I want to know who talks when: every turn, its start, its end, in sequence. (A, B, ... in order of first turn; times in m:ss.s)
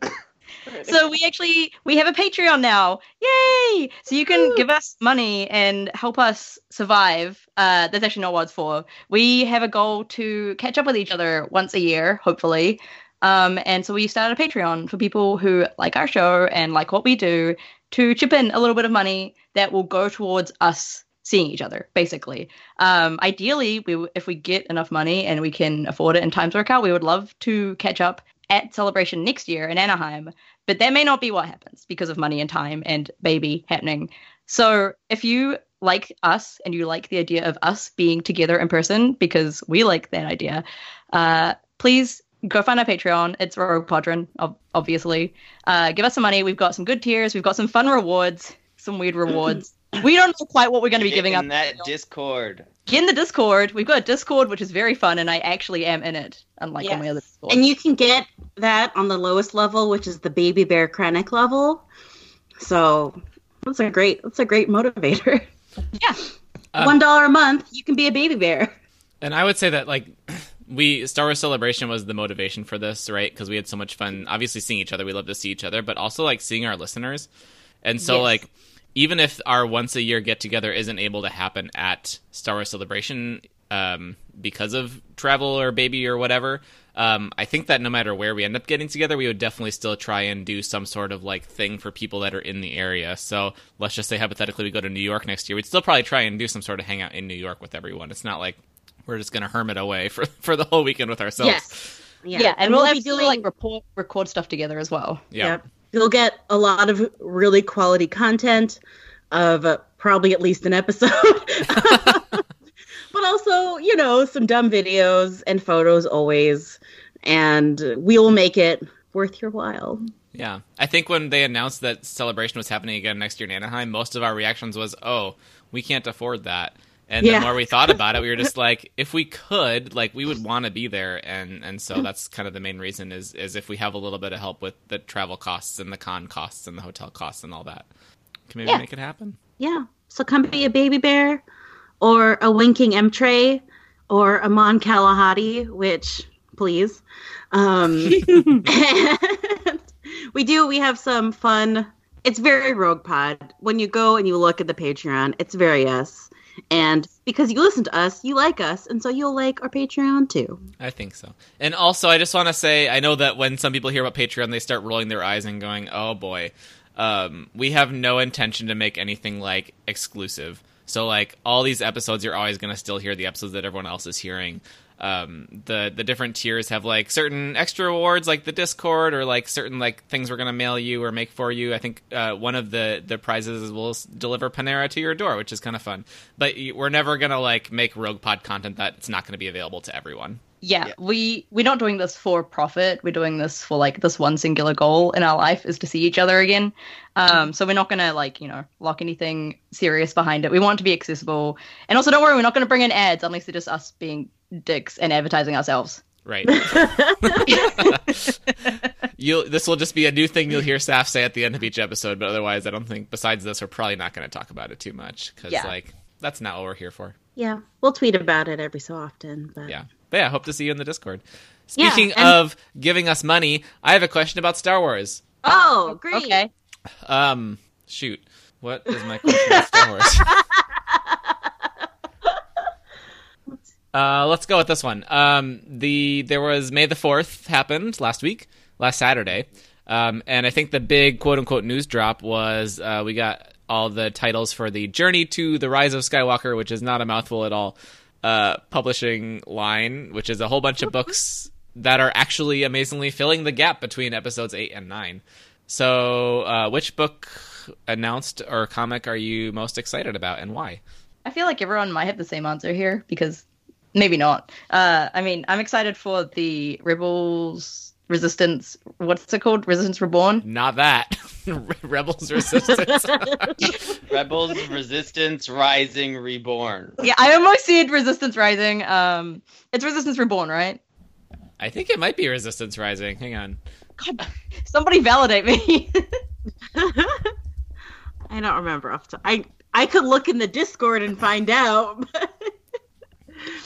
0:00.7-0:01.0 A
0:00.8-0:51.9 B
0:04.3-0:04.6 A
0:51.0-0:52.7 C
0:52.9-0:57.6 B
0:56.8-1:01.8 A
1:02.6-1:05.5 A
1:06.8-1:08.7 A
1:09.2-1:17.3 D
1:17.8-1:42.0 D
1:18.0-1:18.3 B
1:41.4-1:43.4 A
1:42.3-1:45.2 B
1:45.3-1:45.6 D
1:45.4-1:48.8 A
1:49.3-1:52.4 A
1:53.1-2:00.0 A
2:00.3-2:17.9 D
2:07.2-2:08.0 A
2:18.5-2:19.4 D
2:19.6-2:21.4 A
2:22.0-2:40.6 A
2:28.2-2:28.6 B
2:40.8-3:10.4 D
3:10.6-3:26.0 B
3:26.2-3:28.3 D
3:26.5-3:27.9 A
3:27.5-3:27.9 B
3:29.2-3:37.2 D
3:37.4-3:39.7 A
3:39.7-3:45.2 D
3:41.8-3:42.3 A
3:45.4-3:46.4 A
3:45.5-3:46.5 B
3:47.0-3:50.3 D
3:49.3-3:49.6 A
3:50.2-3:51.2 A
3:53.9-4:20.8 D
4:21.2-4:30.4 B
4:30.4-4:33.7 D
4:34.0-4:37.0 C
4:37.0-4:40.8 B
4:41.6-4:43.6 D
4:44.0-4:46.1 B
4:46.7-4:47.3 A
4:48.3-4:52.5 A